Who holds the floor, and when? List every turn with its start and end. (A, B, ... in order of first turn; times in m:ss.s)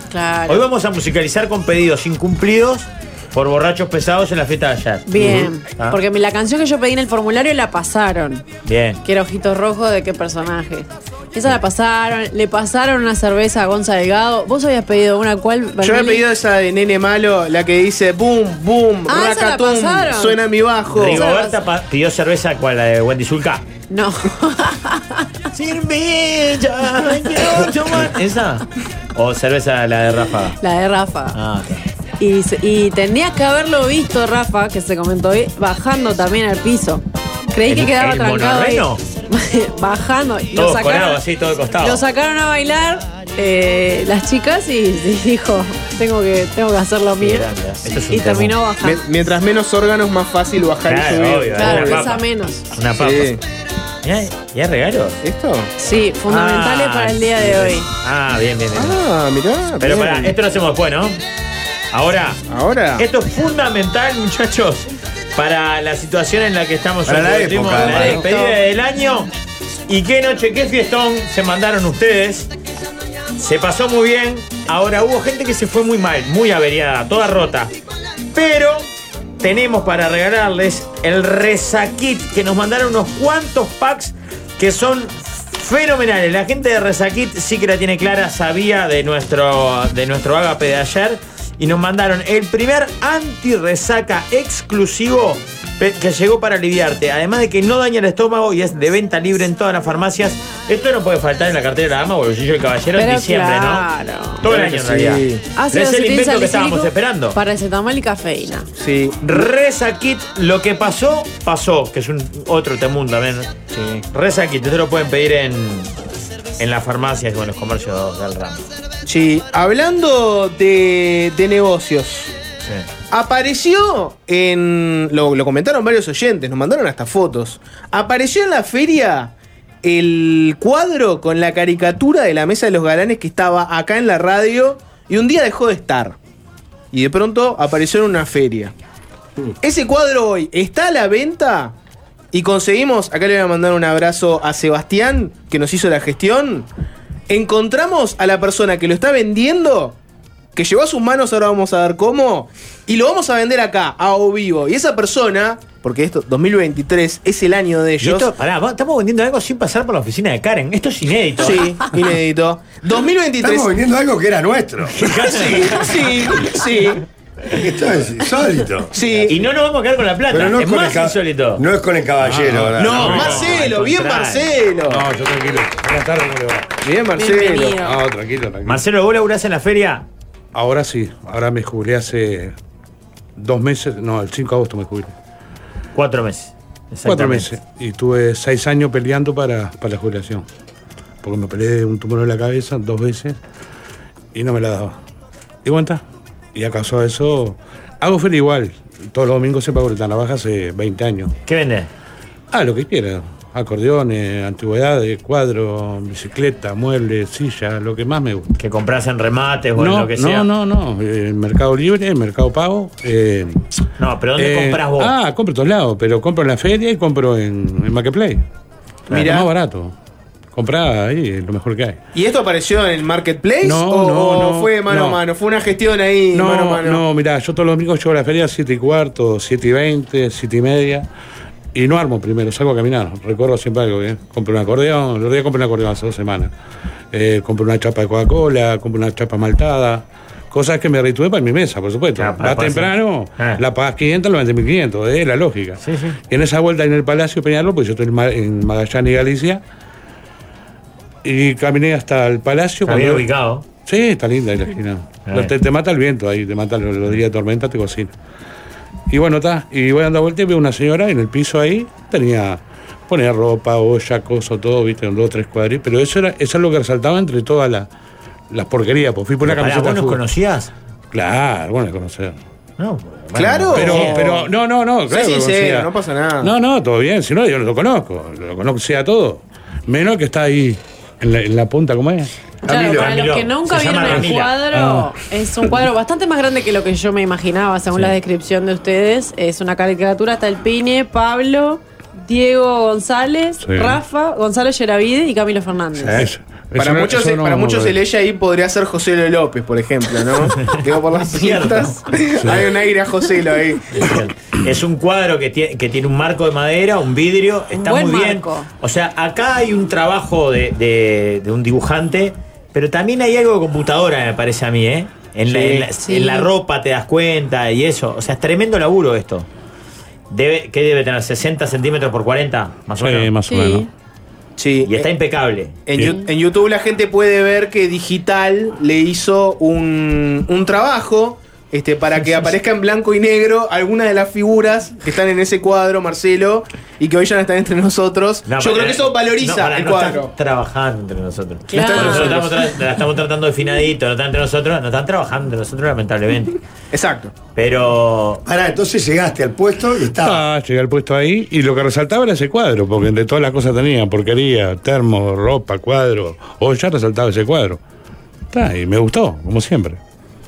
0:00.1-0:00.6 A
0:00.5-0:06.0 B
0:05.1-0:08.4 A
0:08.6-0:09.0 B
0:09.0-0:16.2 A
0:15.8-0:21.2 C
0:19.1-0:20.4 A
0:20.9-0:23.6 B
0:21.0-0:21.6 A
0:23.9-0:25.3 A
0:25.5-0:30.6 B
0:30.6-0:31.4 A
0:31.3-0:31.8 B
0:32.2-0:41.2 A
0:37.7-0:39.0 B
0:40.5-0:42.0 B
0:41.8-0:49.0 A
0:47.2-0:48.6 B
0:48.8-0:52.2 C
0:50.9-0:53.4 B
0:51.5-0:52.6 A
0:53.0-0:53.4 C
0:54.0-0:55.2 B
0:55.2-0:55.7 C
0:55.8-0:57.9 A
0:56.3-0:59.0 B
0:58.7-1:00.3 C
0:59.8-1:01.2 B
1:01.9-1:02.4 B
1:02.5-1:03.0 C
1:03.0-1:09.3 B
1:07.0-1:08.2 D
1:07.7-1:08.6 A
1:09.9-1:12.5 B
1:13.4-1:17.7 B
1:18.3-1:18.8 B
1:19.4-1:43.9 B
1:43.0-1:44.4 A
1:44.4-1:47.4 B
1:44.4-1:45.4 C
1:45.5-1:48.7 A
1:48.8-1:49.3 C
1:49.2-1:53.5 B
1:53.7-1:54.0 C
1:54.1-1:55.9 B
1:56.6-1:58.6 B
1:59.0-2:02.3 C
2:03.1-2:16.2 C
2:16.9-2:18.7 C
2:19.6-2:21.7 C
2:22.3-2:26.7 C
2:27.3-2:30.0 C
2:30.5-2:38.3 C
2:38.0-2:41.7 B
2:41.4-2:43.7 C
2:43.4-2:44.9 D
2:45.0-2:46.0 B
2:45.1-2:47.0 C
2:47.5-2:49.3 D
2:48.9-2:49.4 C
2:49.3-2:51.6 B
2:50.3-2:53.2 D
2:52.2-2:53.6 E
2:52.8-2:55.1 C
2:52.8-2:54.5 B
2:54.9-2:56.8 E
2:56.8-2:57.8 C
2:57.2-2:58.0 A
2:57.8-2:58.8 E
2:58.6-3:00.0 B
3:00.5-3:02.5 E
3:03.4-3:05.1 E
3:05.9-3:07.5 B
3:07.0-3:10.4 E
3:11.2-3:13.4 E
3:14.3-3:15.0 E
3:15.6-3:16.0 E
3:16.5-3:21.3 E
3:21.4-3:21.9 B
3:22.5-3:28.6 E
3:28.6-3:30.5 B
3:29.8-3:33.6 E
3:34.0-3:35.1 B
3:34.4-3:38.4 E
3:39.1-3:39.5 C
3:39.1-3:39.9 E
3:40.5-3:42.0 E
3:42.1-3:47.0 C
3:43.6-3:45.2 E
3:46.3-3:51.1 E
3:51.7-3:56.5 E
3:57.1-4:09.6 E
4:02.2-4:03.6 B
4:05.8-4:06.2 B
4:11.2-4:13.2 E
4:12.8-4:13.6 B
4:13.8-4:18.1 E
4:15.3-4:15.5 B
4:19.1-4:27.9 E
4:28.5-4:30.2 E
4:29.4-4:30.7 B
4:31.1-4:32.4 E
4:32.8-4:34.5 B
4:33.3-4:34.5 C
4:33.7-4:42.3 E
4:35.1-4:36.5 C
4:42.6-4:56.2 A
4:42.6-4:43.2 D
4:42.7-4:44.6 B
4:44.1-4:45.1 E
4:53.6-4:54.0 E
4:56.0-4:56.3 D
4:56.1-4:58.0 E
4:56.8-5:04.2 C
5:00.6-5:02.0 B
5:02.4-5:02.7 E
5:03.9-5:19.5 B
5:07.8-5:08.7 A
5:15.5-5:15.9 C
5:16.0-5:16.5 A
5:20.3-5:23.3 B
5:23.0-5:23.9 E
5:23.5-5:23.9 A
5:24.6-5:25.0 C
5:24.8-5:25.8 B
5:25.8-5:40.3 C
5:26.0-5:26.3 A
5:38.5-5:46.6 B
5:41.7-5:42.4 A
5:41.7-5:42.7 C
5:46.9-5:47.3 C
5:47.5-5:48.4 B
5:48.4-5:50.4 D
5:50.2-5:57.8 E
5:58.5-6:00.0 E